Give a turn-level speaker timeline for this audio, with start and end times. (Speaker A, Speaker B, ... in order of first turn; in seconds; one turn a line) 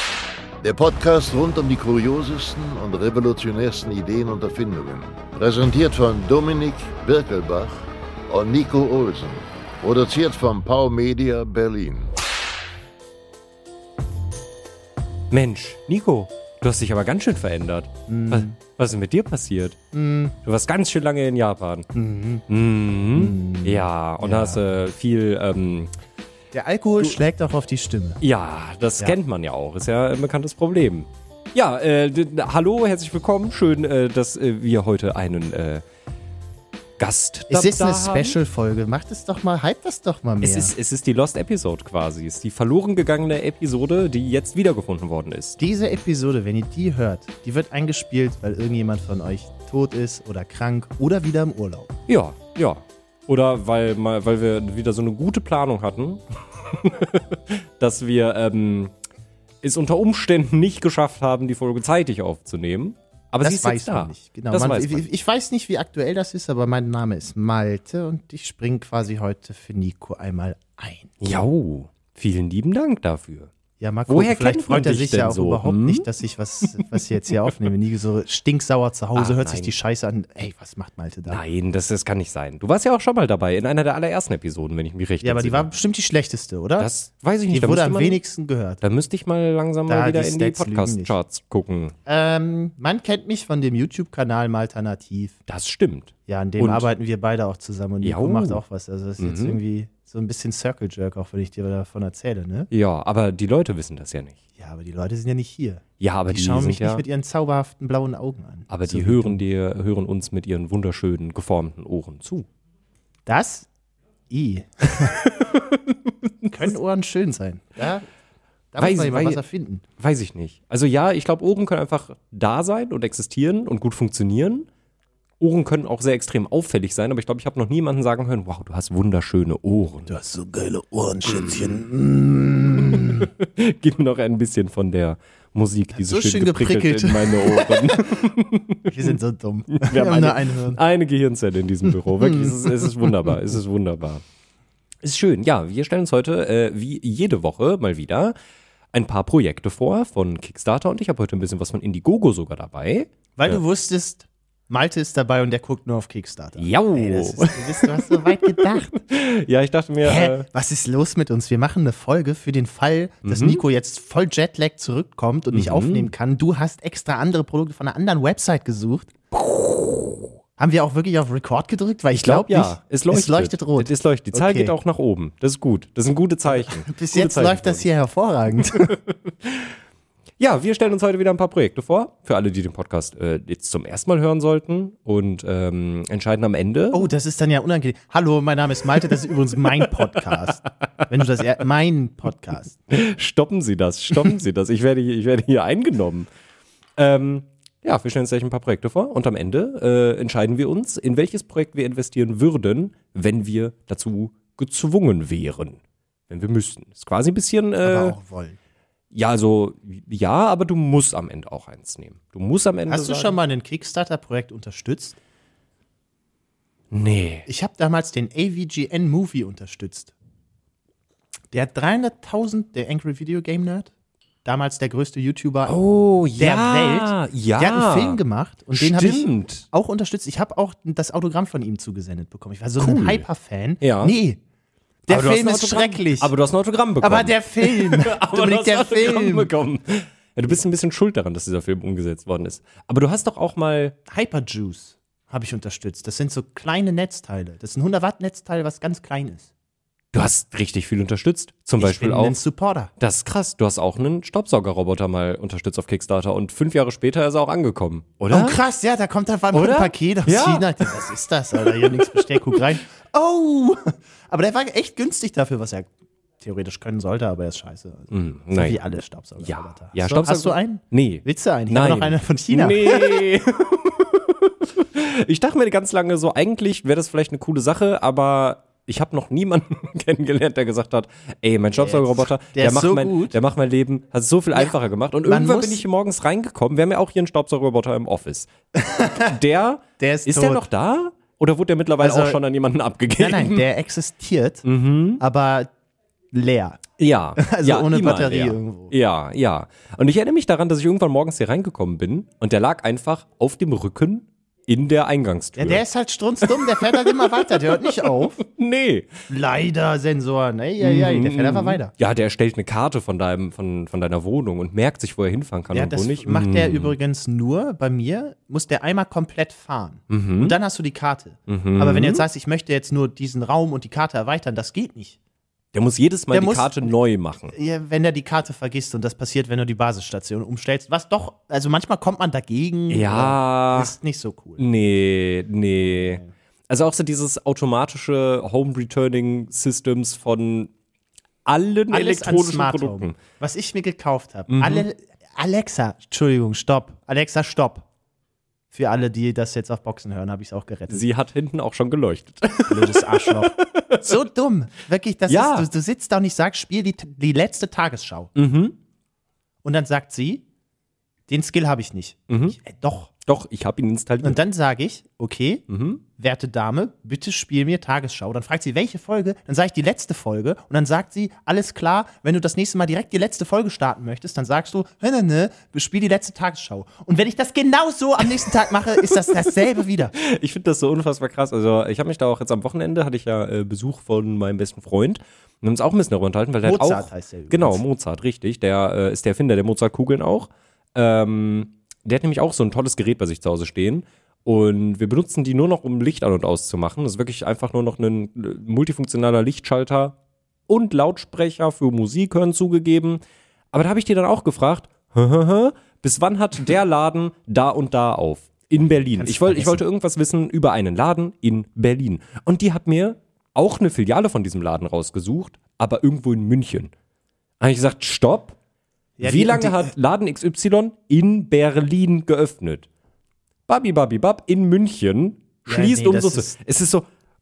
Speaker A: 0.6-12.1
Speaker B: 15.3-19.8
Speaker C: 18.1-18.6
Speaker C: 19.9-20.4
Speaker B: 20.4-21.9
Speaker C: 21.9-22.4
Speaker B: 22.5-25.9
Speaker C: 23.1-24.6
Speaker C: 26.5-28.2
Speaker B: 28.2-35.8
Speaker B: 37.0-38.4
Speaker C: 37.5-40.7
Speaker B: 40.4-45.6
Speaker C: 45.6-51.9
Speaker B: 52.1-58.9
Speaker B: 59.6-65.1
Speaker C: 63.4-71.2
Speaker B: 71.2-73.5
Speaker C: 73.8-81.4
Speaker B: 74.1-76.1
Speaker B: 79.2-79.7
Speaker B: 81.3-85.7
Speaker C: 85.2-86.9
Speaker B: 86.8-88.2
Speaker C: 87.5-88.8
Speaker B: 88.8-91.9
Speaker C: 89.9-91.2
Speaker C: 92.1-95.4
Speaker B: 95.5-96.9
Speaker C: 96.3-102.7
Speaker B: 98.0-98.6
Speaker B: 99.2-99.6
Speaker B: 102.7-104.4
Speaker C: 104.6-109.4
Speaker B: 106.0-107.0
Speaker B: 108.7-112.5
Speaker C: 113.3-113.7
Speaker C: 114.3-115.3
Speaker B: 115.3-116.2
Speaker C: 116.4-118.1
Speaker C: 118.7-119.8
Speaker B: 118.8-119.4
Speaker B: 120.0-124.7
Speaker B: 125.4-130.1
Speaker C: 130.1-133.3
Speaker B: 131.3-131.8
Speaker B: 132.7-139.1
Speaker C: 135.9-138.3
Speaker C: 138.9-140.8
Speaker B: 139.7-144.2
Speaker C: 141.9-143.4
Speaker B: 145.0-148.3
Speaker B: 148.9-153.6
Speaker C: 153.4-159.0
Speaker B: 156.6-160.5
Speaker C: 160.0-169.8
Speaker B: 163.2-163.6
Speaker B: 165.5-166.1
Speaker C: 170.6-174.7
Speaker B: 172.1-177.8
Speaker C: 176.5-179.0
Speaker B: 178.6-179.8
Speaker B: 180.4-187.1
Speaker C: 186.9-192.8
Speaker B: 192.9-196.3
Speaker B: 197.0-208.2
Speaker C: 207.8-208.6
Speaker B: 209.1-213.4
Speaker C: 212.9-215.2
Speaker B: 216.9-217.5
Speaker C: 217.5-220.1
Speaker C: 221.5-223.9
Speaker C: 224.4-225.8
Speaker B: 225.7-228.2
Speaker C: 226.4-234.4
Speaker B: 228.7-229.7
Speaker B: 232.8-233.3
Speaker B: 233.8-234.2
Speaker C: 235.1-236.3
Speaker B: 235.1-244.0
Speaker C: 237.0-239.5
Speaker C: 244.1-249.5
Speaker B: 250.1-252.4
Speaker C: 251.8-252.9
Speaker B: 253.0-258.6
Speaker C: 258.3-265.9
Speaker B: 259.5-261.0
Speaker B: 261.6-262.8
Speaker C: 266.4-273.3
Speaker B: 268.1-268.8
Speaker B: 269.4-288.5
Speaker C: 281.8-283.4
Speaker C: 284.5-285.8
Speaker C: 288.8-289.4
Speaker B: 289.1-293.7
Speaker C: 290.0-290.6
Speaker C: 292.0-292.4
Speaker C: 293.2-294.7
Speaker B: 294.6-295.2
Speaker C: 295.2-295.7
Speaker C: 296.3-296.8
Speaker B: 297.0-305.8
Speaker C: 297.4-298.9
Speaker C: 305.6-308.4
Speaker B: 306.4-309.1
Speaker C: 309.3-311.9
Speaker B: 310.8-316.9
Speaker C: 315.7-325.2
Speaker B: 320.1-320.6
Speaker B: 321.5-322.3
Speaker B: 325.7-327.5
Speaker C: 326.3-327.0
Speaker C: 327.5-334.7
Speaker B: 332.9-333.9
Speaker B: 334.6-340.7
Speaker C: 336.0-336.3
Speaker B: 341.4-343.1
Speaker C: 341.9-347.9
Speaker B: 344.5-344.9
Speaker C: 348.7-351.1
Speaker B: 350.9-354.1
Speaker C: 352.7-358.3
Speaker B: 355.3-355.7
Speaker B: 358.4-358.8
Speaker C: 359.6-360.4
Speaker C: 361.3-363.1
Speaker B: 362.3-362.6
Speaker B: 363.2-364.4
Speaker C: 364.2-365.6
Speaker B: 365.7-366.0
Speaker C: 366.2-380.1
Speaker B: 378.5-379.6
Speaker B: 380.2-400.2
Speaker C: 386.6-387.8
Speaker B: 400.7-403.2
Speaker B: 403.7-416.9
Speaker C: 409.2-409.8
Speaker B: 417.6-418.6
Speaker C: 419.2-419.9
Speaker B: 419.2-422.9
Speaker B: 423.7-427.1
Speaker C: 425.7-426.6